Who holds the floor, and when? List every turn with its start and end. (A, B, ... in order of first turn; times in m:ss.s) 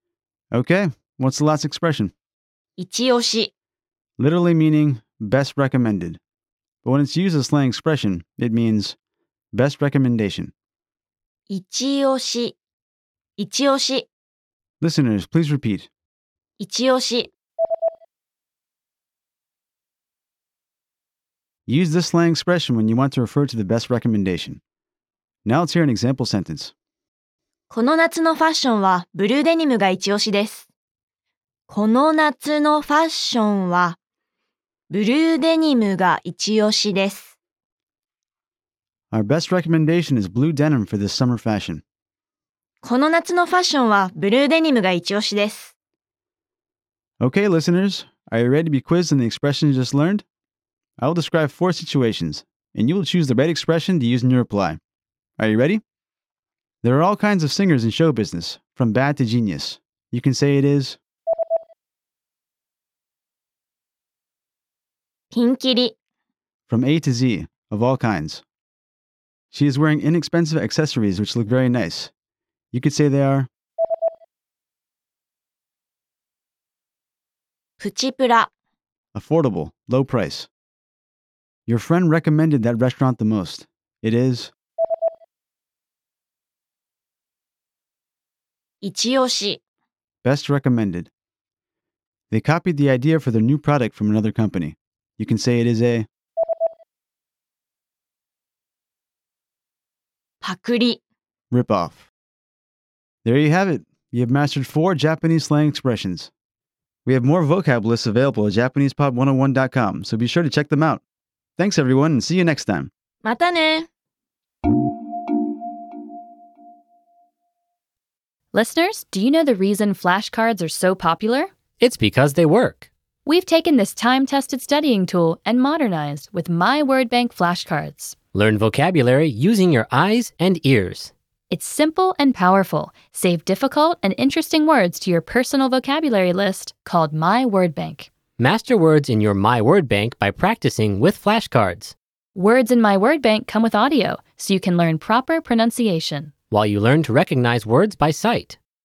0:00.5-0:02.1 A
0:02.8-0:03.5 B
0:04.2-0:06.2 A
0:06.8-0:09.0 A
0:09.5-0:10.5 A
0:11.5-0:12.6 B
0:13.4-0:14.1 B
0:14.8-0:15.9 A
0:16.6-0:17.3 B
0:21.7-0:24.6 A
0:25.4-0:26.7 A
0:27.7-0:30.7 B
0:31.7-0:34.0 B
0:34.9-0:37.3 B
0:39.1-0:41.8 A
0:42.8-0:45.7 B
0:47.2-0:50.2 A
0:51.0-0:54.8 A
0:55.4-0:55.8 A
0:56.8-1:01.0 A
1:05.3-1:05.9 B
1:06.7-1:08.4 A
1:09.5-1:12.1 A
1:12.7-1:13.5 A
1:17.8-1:18.5 B
1:19.1-1:20.5 A
1:21.7-1:24.5 A
1:28.8-1:29.6 B
1:30.2-1:31.1 A
1:32.3-1:36.1 A
1:40.4-1:41.0 B
1:41.5-1:42.0 A
1:43.2-1:46.3 A
1:47.0-1:51.0 A
1:51.6-1:52.9 A
1:53.2-1:53.9 B
1:58.5-2:01.5 C
2:01.8-2:02.9 D
2:03.2-2:08.2 C
2:08.3-2:11.1 D
2:11.5-2:18.1 C
2:18.4-2:21.9 D
2:22.3-2:26.3 C
2:26.5-2:28.6 D